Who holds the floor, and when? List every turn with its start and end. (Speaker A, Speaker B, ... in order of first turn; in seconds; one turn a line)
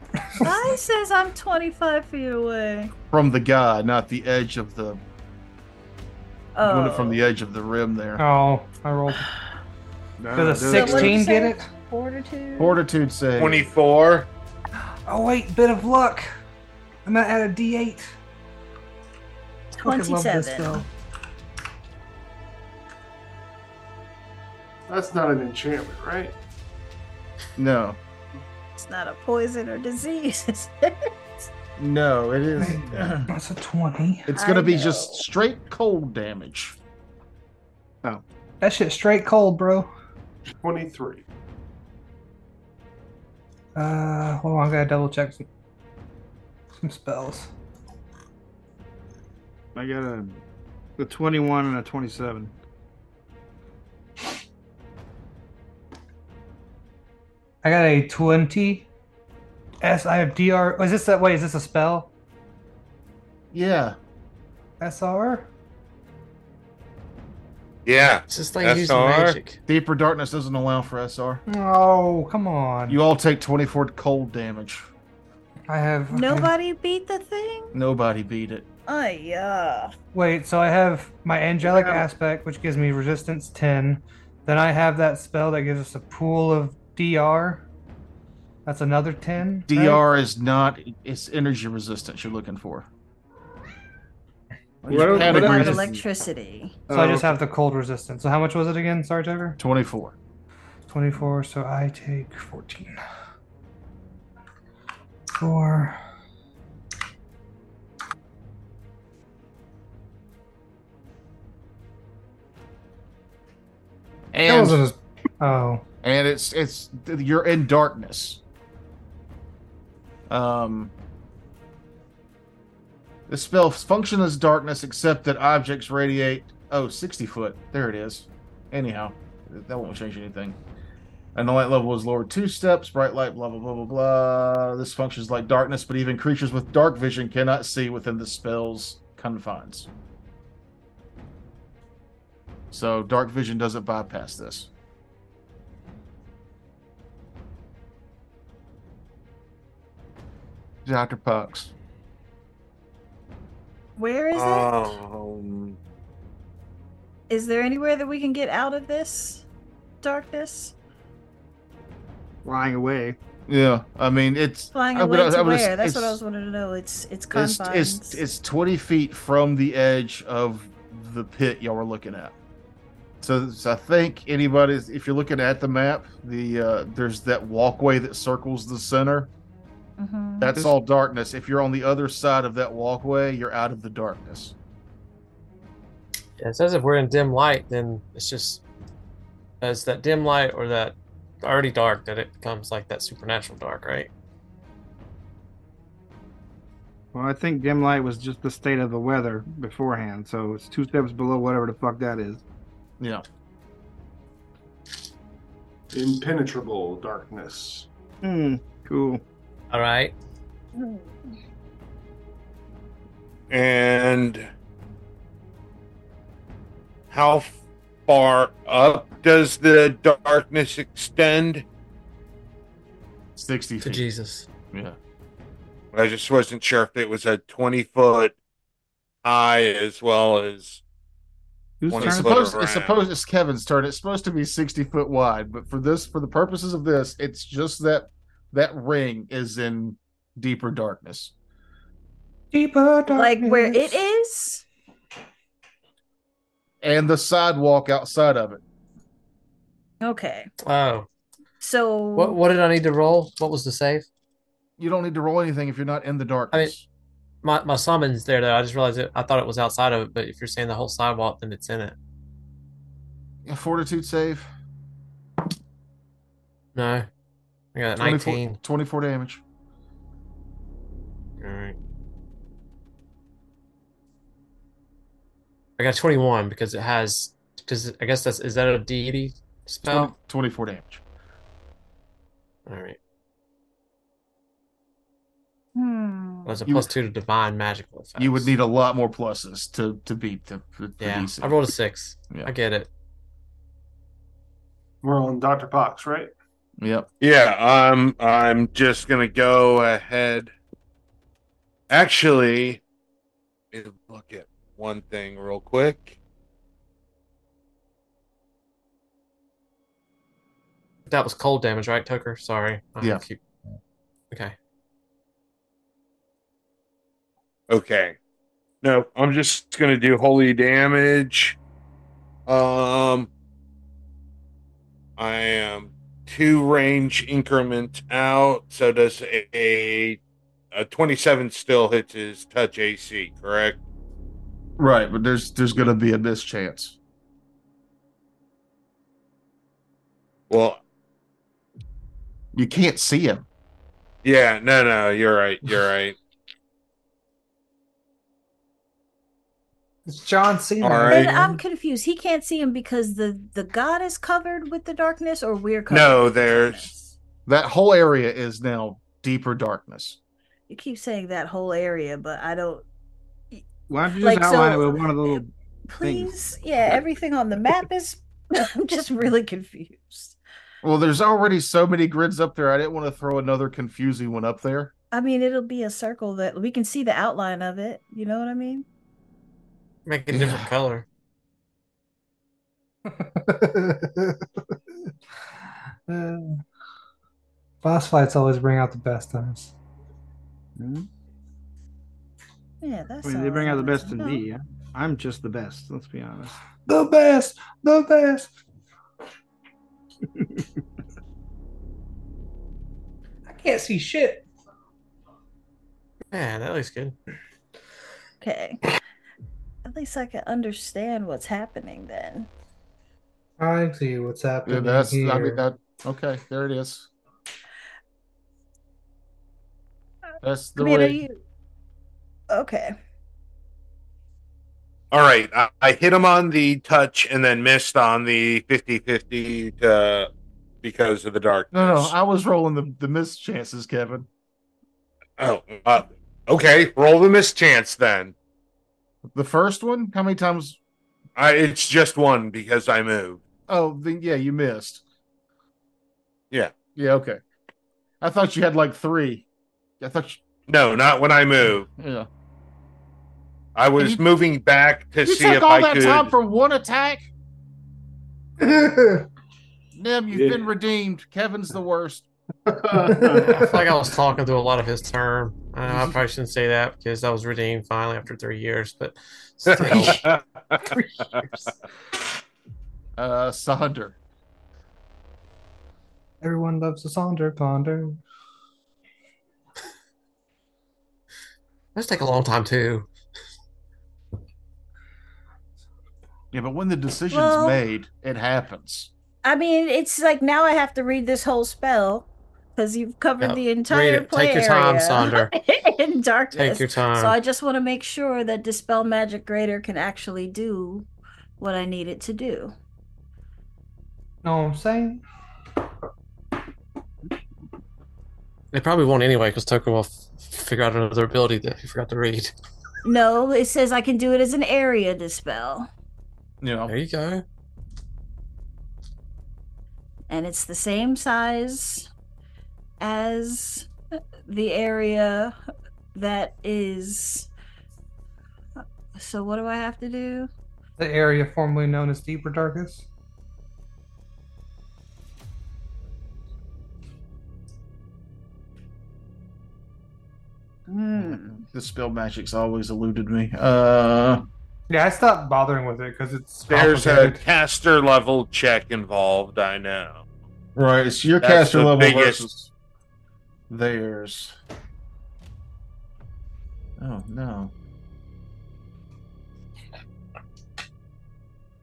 Speaker A: 0.4-2.9
Speaker B: 3.1-5.0
Speaker A: 6.5-7.2
Speaker B: 6.6-8.2
Speaker C: 8.2-9.3
Speaker D: 10.2-11.2
Speaker C: 10.3-11.7
Speaker A: 10.7-12.8
Speaker B: 12.6-13.7
Speaker E: 13.4-14.3
Speaker C: 15.1-16.3
Speaker C: 17.1-18.1
Speaker A: 19.8-20.9
Speaker C: 19.8-20.9
Speaker F: 24.9-26.4
Speaker B: 27.6-28.0
Speaker A: 28.8-31.4
Speaker B: 31.8-33.3
Speaker C: 32.6-34.3
Speaker B: 34.3-36.8
Speaker A: 34.3-35.2
Speaker C: 38.6-39.9
Speaker F: 40.6-41.2
Speaker C: 43.8-45.5
Speaker C: 46.8-47.5
Speaker D: 49.8-50.4
Speaker D: 51.0-52.5
Speaker C: 57.6-58.9
Speaker C: 59.8-62.1
Speaker B: 63.5-64.0
Speaker C: 64.8-65.5
Speaker E: 67.9-69.4
Speaker G: 68.3-69.6
Speaker B: 69.7-71.4
Speaker C: 71.5-73.0
Speaker B: 72.9-74.9
Speaker C: 75.7-76.5
Speaker A: 76.1-77.8
Speaker B: 77.7-78.7
Speaker A: 78.9-79.9
Speaker C: 80.1-87.6
Speaker D: 81.6-82.0
Speaker C: 88.7-90.0
Speaker B: 89.7-92.9
Speaker D: 94.8-96.0
Speaker B: 94.9-95.9
Speaker A: 95.0-96.8
Speaker D: 96.9-97.4
Speaker C: 96.9-99.6
Speaker B: 99.6-100.2
Speaker C: 100.9-103.0
Speaker C: 105.4-106.0
Speaker B: 114.3-114.8
Speaker C: 114.5-115.8
Speaker B: 116.0-118.4
Speaker B: 120.3-120.9
Speaker B: 123.3-130.6
Speaker B: 131.3-139.9
Speaker B: 142.7-144.7
Speaker B: 150.8-151.7
Speaker A: 154.0-155.0
Speaker E: 154.3-155.8
Speaker A: 157.3-159.5
Speaker A: 160.0-160.8
Speaker D: 162.4-163.2
Speaker B: 163.5-166.2
Speaker A: 164.7-168.2
Speaker B: 167.3-172.3
Speaker B: 173.2-179.3
Speaker A: 180.0-180.6
Speaker B: 180.4-184.6
Speaker G: 186.4-188.6
Speaker G: 189.6-194.1
Speaker D: 197.1-202.4
Speaker F: 205.9-207.9
Speaker D: 208.2-209.2
Speaker G: 209.7-210.1
Speaker A: 210.7-211.3
Speaker E: 213.5-214.5
Speaker E: 217.1-221.7
Speaker B: 223.4-224.0
Speaker G: 223.8-224.5
Speaker B: 224.7-225.0
Speaker E: 225.9-228.3
Speaker E: 229.2-230.8
Speaker D: 231.8-232.4
Speaker E: 231.9-233.0
Speaker B: 232.0-241.3
Speaker C: 242.5-244.0
Speaker A: 243.1-244.7
Speaker B: 246.8-248.6
Speaker A: 250.0-250.5
Speaker G: 250.6-251.1
Speaker A: 251.6-252.4
Speaker G: 252.2-254.1
Speaker B: 254.8-256.9
Speaker G: 257.4-261.9
Speaker B: 263.4-264.5
Speaker G: 266.8-267.1
Speaker G: 267.8-268.6
Speaker B: 268.0-269.4
Speaker G: 271.4-271.8
Speaker G: 275.8-280.1
Speaker B: 279.9-281.0
Speaker G: 282.7-283.0
Speaker A: 285.8-286.5
Speaker G: 286.5-288.5
Speaker B: 288.2-291.6
Speaker G: 291.0-292.9
Speaker F: 295.0-296.3
Speaker B: 296.8-297.1
Speaker E: 297.2-300.5
Speaker E: 301.9-302.8
Speaker E: 303.7-306.2
Speaker G: 311.1-313.4
Speaker E: 317.7-318.2
Speaker E: 318.8-321.6
Speaker E: 322.5-323.3
Speaker E: 325.2-330.2
Speaker E: 330.7-333.8
Speaker B: 334.8-337.0
Speaker E: 340.5-340.8
Speaker B: 342.5-343.5
Speaker E: 344.2-346.2
Speaker C: 350.1-351.6
Speaker E: 350.8-351.4
Speaker A: 351.1-357.1
Speaker E: 355.9-356.9
Speaker B: 357.5-360.2
Speaker A: 360.7-362.8
Speaker A: 363.5-370.4
Speaker D: 363.9-366.3
Speaker B: 370.8-374.9
Speaker A: 375.1-378.9
Speaker G: 380.1-381.1
Speaker B: 380.3-380.7
Speaker C: 383.1-384.8
Speaker C: 386.1-386.6
Speaker C: 387.8-389.8
Speaker D: 390.8-391.1
Speaker A: 392.8-394.4
Speaker D: 393.2-396.6
Speaker C: 396.9-398.5
Speaker D: 400.4-400.6
Speaker C: 403.5-404.4
Speaker G: 406.3-407.2
Speaker A: 408.4-408.8
Speaker A: 409.9-412.5
Speaker C: 413.6-415.6
Speaker B: 414.7-417.1
Speaker B: 420.4-421.2
Speaker A: 420.8-421.4
Speaker A: 422.5-422.9
Speaker E: 425.1-430.3
Speaker E: 430.8-432.1
Speaker B: 431.7-434.3
Speaker E: 435.4-438.4
Speaker B: 439.3-440.8
Speaker E: 441.4-443.4
Speaker B: 443.7-445.0
Speaker B: 446.9-447.4
Speaker B: 448.2-449.5
Speaker B: 450.0-450.4
Speaker E: 450.7-451.9
Speaker B: 451.9-452.3
Speaker E: 453.8-456.3
Speaker B: 454.0-454.2
Speaker B: 455.2-457.3
Speaker C: 458.6-459.3
Speaker B: 460.0-462.3
Speaker F: 460.3-460.7
Speaker F: 462.7-463.7
Speaker C: 463.1-463.7
Speaker G: 463.4-470.2
Speaker E: 469.7-471.4
Speaker B: 473.2-474.2
Speaker C: 476.4-478.2
Speaker G: 481.9-483.1
Speaker B: 486.5-489.1
Speaker A: 487.3-487.8
Speaker A: 489.4-501.1
Speaker G: 493.4-495.5
Speaker G: 496.5-497.4
Speaker A: 501.6-502.7
Speaker C: 504.4-505.2
Speaker G: 508.7-512.5
Speaker A: 513.0-515.9
Speaker B: 516.6-516.9
Speaker G: 516.9-517.4
Speaker A: 520.3-522.1
Speaker A: 523.0-523.9
Speaker A: 524.5-525.5
Speaker A: 526.1-527.5
Speaker A: 529.1-530.5
Speaker C: 531.0-533.1
Speaker A: 540.9-541.6
Speaker B: 541.1-544.5
Speaker C: 544.9-547.4
Speaker E: 546.7-550.2
Speaker B: 550.8-552.7
Speaker E: 551.4-552.5
Speaker B: 553.7-554.6
Speaker B: 557.0-557.7